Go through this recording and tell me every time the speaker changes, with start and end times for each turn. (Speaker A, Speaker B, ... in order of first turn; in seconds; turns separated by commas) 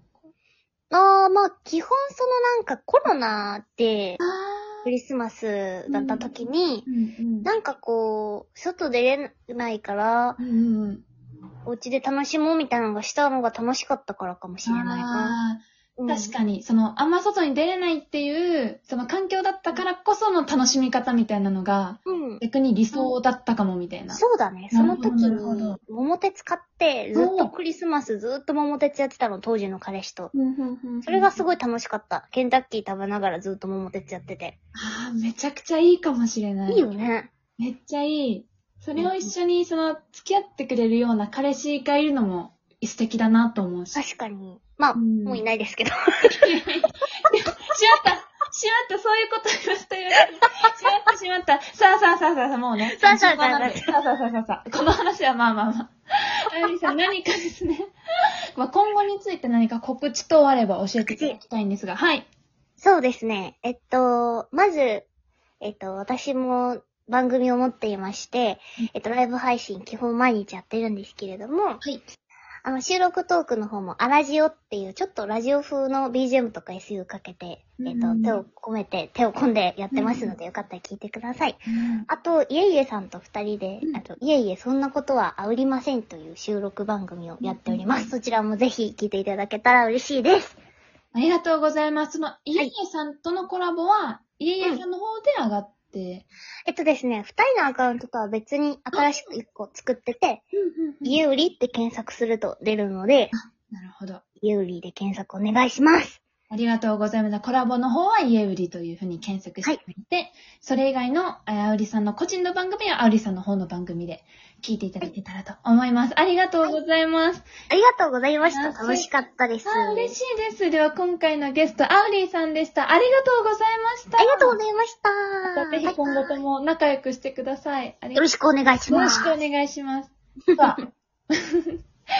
Speaker A: 0.9-4.2, Speaker B: 4.2-4.9, Speaker A: 4.8-6.8, Speaker B: 5.9-6.3, Speaker B: 6.8-7.5, Speaker A: 7.4-10.4, Speaker B: 10.4-11.0, Speaker A: 11.7-15.4, Speaker B: 14.6-25.8, Speaker A: 16.0-16.3, Speaker A: 22.1-22.4, Speaker A: 24.1-30.3, Speaker B: 27.1-27.5, Speaker B: 30.3-31.3, Speaker A: 31.1-34.5, Speaker B: 34.7-36.9, Speaker A: 36.7-37.3, Speaker B: 37.6-44.0, Speaker A: 39.0-39.3, Speaker A: 43.9-46.4, Speaker B: 44.9-45.4, Speaker B: 46.4-55.9, Speaker A: 52.9-53.9, Speaker B: 56.5-57.9, Speaker B: 58.5-62.2, Speaker A: 61.1-61.4, Speaker A: 62.8-65.1, Speaker A: 65.6-71.8, Speaker A: 72.6-90.6, Speaker B: 77.8-78.4, Speaker B: 79.9-80.3, Speaker B: 81.7-82.0, Speaker B: 87.4-88.1, Speaker B: 91.1-96.2, Speaker A: 96.7-100.4, Speaker B: 98.9-99.2, Speaker B: 100.5-101.2, Speaker A: 101.0-103.3, Speaker B: 103.3-104.2, Speaker A: 104.4-106.2, Speaker B: 106.5-117.5, Speaker A: 117.7-120.1, Speaker B: 118.4-119.1, Speaker B: 119.7-124.6, Speaker A: 124.2-126.4, Speaker B: 125.5-128.2, Speaker A: 128.1-129.4, Speaker B: 128.9-130.8